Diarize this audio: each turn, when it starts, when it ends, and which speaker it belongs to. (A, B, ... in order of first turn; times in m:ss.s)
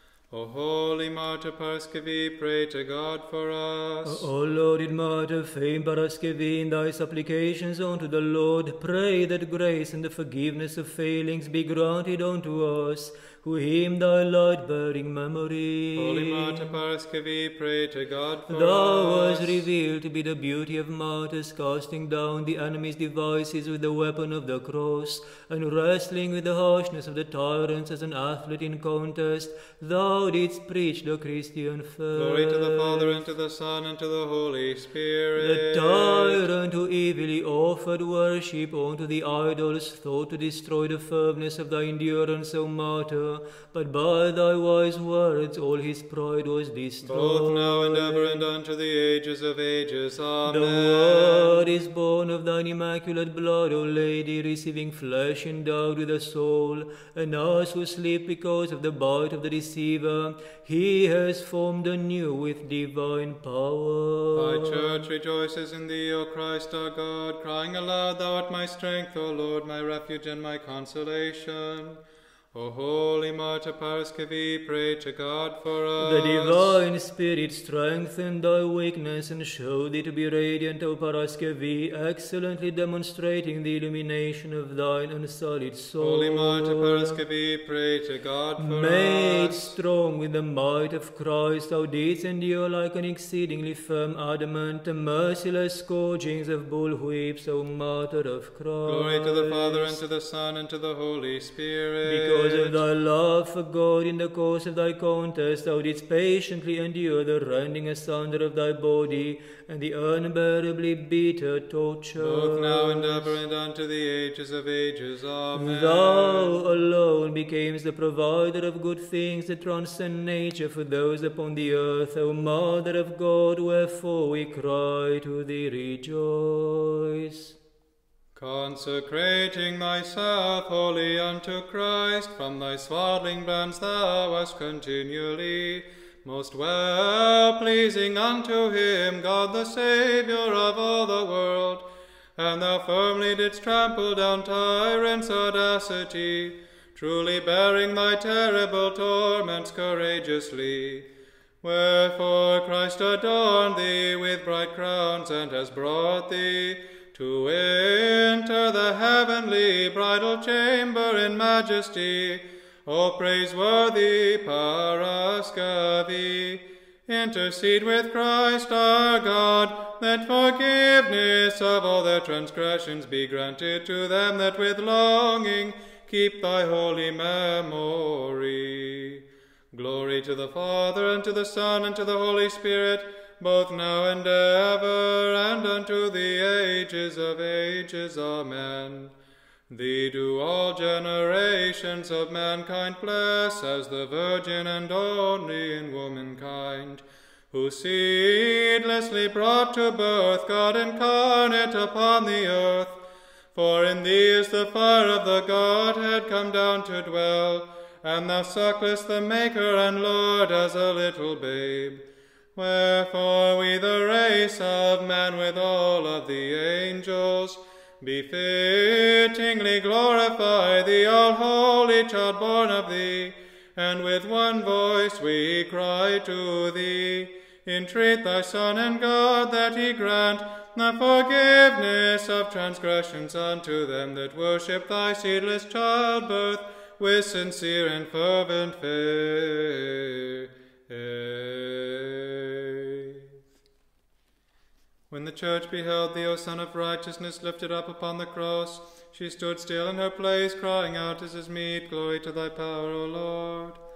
0:00.3-0:04.3 A
0:04.0-0:16.7 B
0:16.0-0:19.7 A
0:18.5-0:33.1 B
0:32.2-0:36.4 A
0:35.4-0:48.4 B
0:47.0-0:51.7 A
0:50.5-1:05.0 B
1:04.4-1:12.0 A
1:12.5-1:16.8 A
1:16.0-1:27.2 B
1:26.0-1:29.7 A
1:28.6-1:40.0 B
1:38.8-1:42.8 A
1:42.0-1:53.3 B
1:52.2-1:56.6 A
1:55.5-2:07.6 B
2:08.4-2:31.1 A
2:31.6-3:09.2 A
3:09.7-3:23.0 A
3:23.5-4:03.3 A
4:05.1-4:13.8 A